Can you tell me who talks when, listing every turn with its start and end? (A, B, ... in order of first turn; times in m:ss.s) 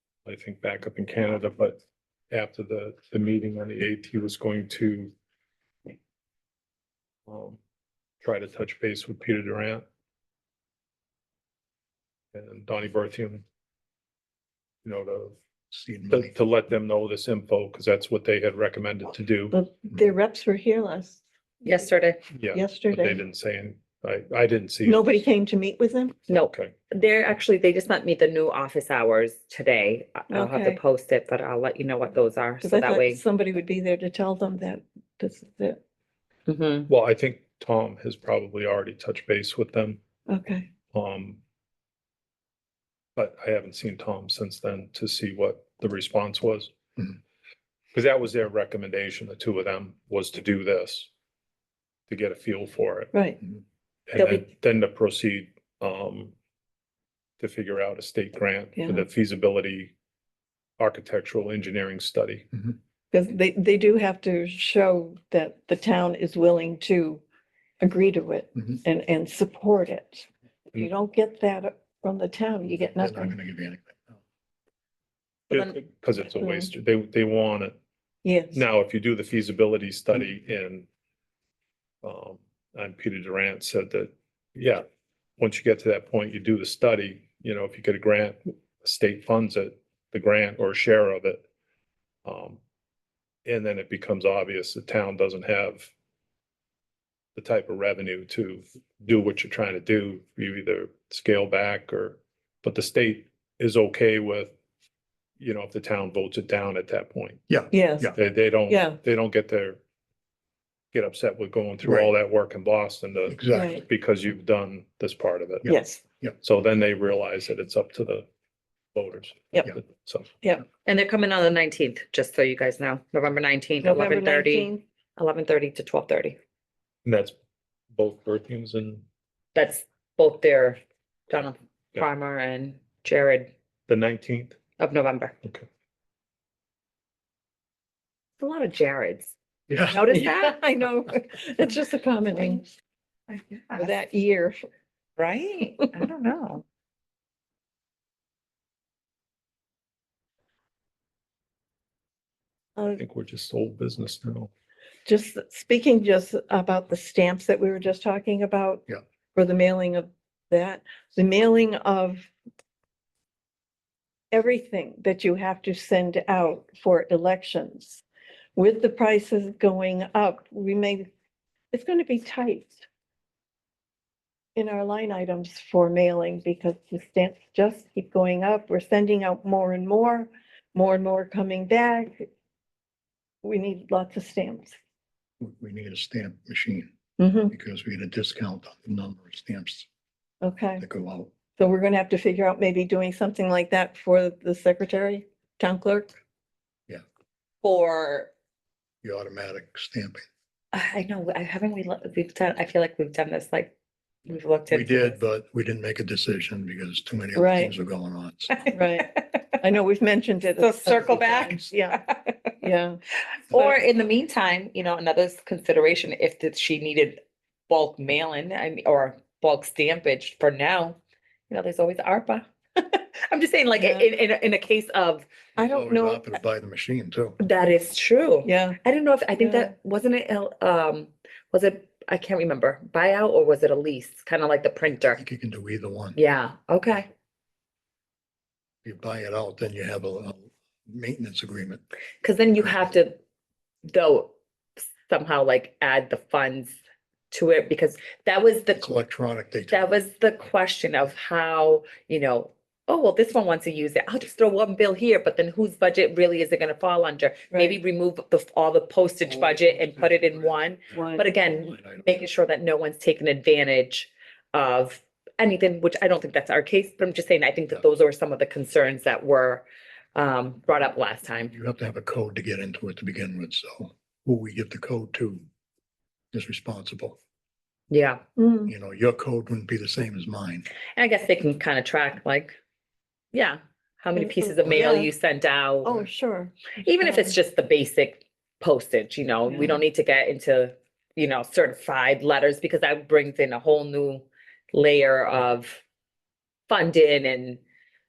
0:00.3-0:01.8 A
0:02.3-0:05.1 A
0:07.3-0:07.6 A
0:08.2-0:09.8 A
0:12.3-0:13.4 A
0:14.8-0:15.4 A
0:15.7-0:16.3 B
0:16.1-0:19.6 A
0:19.5-0:21.2 C
0:21.6-0:22.2 D
0:22.3-0:25.2 A
0:22.5-0:23.2 C
0:24.8-0:26.2 C
0:26.3-0:33.2 D
0:26.3-0:26.7 A
0:30.3-0:30.8 C
0:32.6-0:35.8 C
0:36.5-0:36.9 D
0:36.9-0:40.0 A
0:40.3-0:40.7 C
0:40.9-0:41.4 A
0:43.2-0:46.7 A
0:47.9-0:51.1 A
0:52.1-0:53.1 A
0:53.1-0:53.4 C
0:54.1-0:56.4 A
0:54.2-0:54.4 D
0:57.4-0:59.9 A
0:58.8-0:59.0 C
1:00.8-1:02.5 A
1:03.1-1:07.2 C
1:07.8-1:13.4 C
1:13.0-1:14.2 B
1:15.5-1:15.8 D
1:15.5-1:17.8 A
1:16.4-1:16.7 C
1:18.2-1:18.6 C
1:18.5-1:20.9 A
1:22.0-1:24.8 A
1:25.4-1:31.4 A
1:32.2-1:32.6 A
1:33.4-1:35.9 A
1:37.4-1:44.5 A
1:45.4-1:47.4 A
1:47.5-1:48.2 B
1:47.7-1:48.2 C
1:48.2-1:49.8 A
1:48.7-1:49.0 C
1:50.9-1:55.7 A
1:51.8-1:52.1 B
1:53.3-1:53.8 B
1:53.5-1:53.8 C
1:55.6-1:56.4 B
1:55.7-1:56.0 C
1:56.4-1:58.3 A
1:58.9-2:00.3 A
2:00.8-2:06.4 D
2:03.8-2:04.8 C
2:07.0-2:07.3 A
2:07.9-2:09.0 A
2:09.6-2:13.5 D
2:13.9-2:14.6 A
2:14.8-2:15.4 D
2:18.4-2:19.3 D
2:19.7-2:20.0 B
2:19.9-2:20.6 D
2:19.9-2:22.6 C
2:23.3-2:24.0 D
2:23.8-2:24.6 C
2:25.2-2:26.6 D
2:32.9-2:34.5 A
2:35.1-2:42.3 C
2:44.3-2:48.0 C
2:48.6-2:51.1 C
2:51.7-2:52.9 C
2:54.6-3:02.3 C
3:03.4-3:04.8 C
3:05.4-3:06.9 B
3:07.2-3:07.5 C
3:07.5-3:09.9 B
3:10.4-3:10.8 C
3:10.8-3:11.3 B
3:11.6-3:16.1 C
3:17.6-3:18.3 D
3:19.0-3:20.2 B
3:20.7-3:23.7 D
3:24.3-3:25.2 D
3:24.7-3:28.6 B
3:27.4-3:27.7 C
3:28.6-3:29.4 D
3:28.7-3:32.0 C
3:30.6-3:32.5 D
3:30.9-3:31.7 B
3:32.6-3:33.0 C
3:33.5-3:41.0 D
3:41.5-3:45.3 D
3:43.8-3:44.1 C
3:45.6-3:47.4 B
3:45.6-3:46.4 C
3:47.4-3:55.2 D
3:48.4-3:48.8 C
3:49.4-3:49.7 C
3:55.0-3:56.2 B
3:56.2-3:57.1 D
3:58.8-4:01.8 B
4:02.2-4:03.2 D
4:03.8-4:04.3 D
4:05.0-4:06.8 D
4:07.3-4:08.9 D
4:08.8-4:10.0 B
4:09.7-4:31.5 D
4:17.5-4:17.8 C
4:19.2-4:22.3 B
4:20.9-4:21.2 C
4:31.5-4:35.4 B
4:36.3-4:37.2 B
4:37.9-4:38.2 D
4:38.4-4:38.7 C
4:38.7-4:40.7 B
4:41.0-4:42.6 D
4:43.3-4:46.0 D
4:44.2-4:45.1 C
4:45.8-4:47.4 C
4:46.8-4:55.8 D
4:49.5-4:49.8 C
4:56.7-4:57.6 D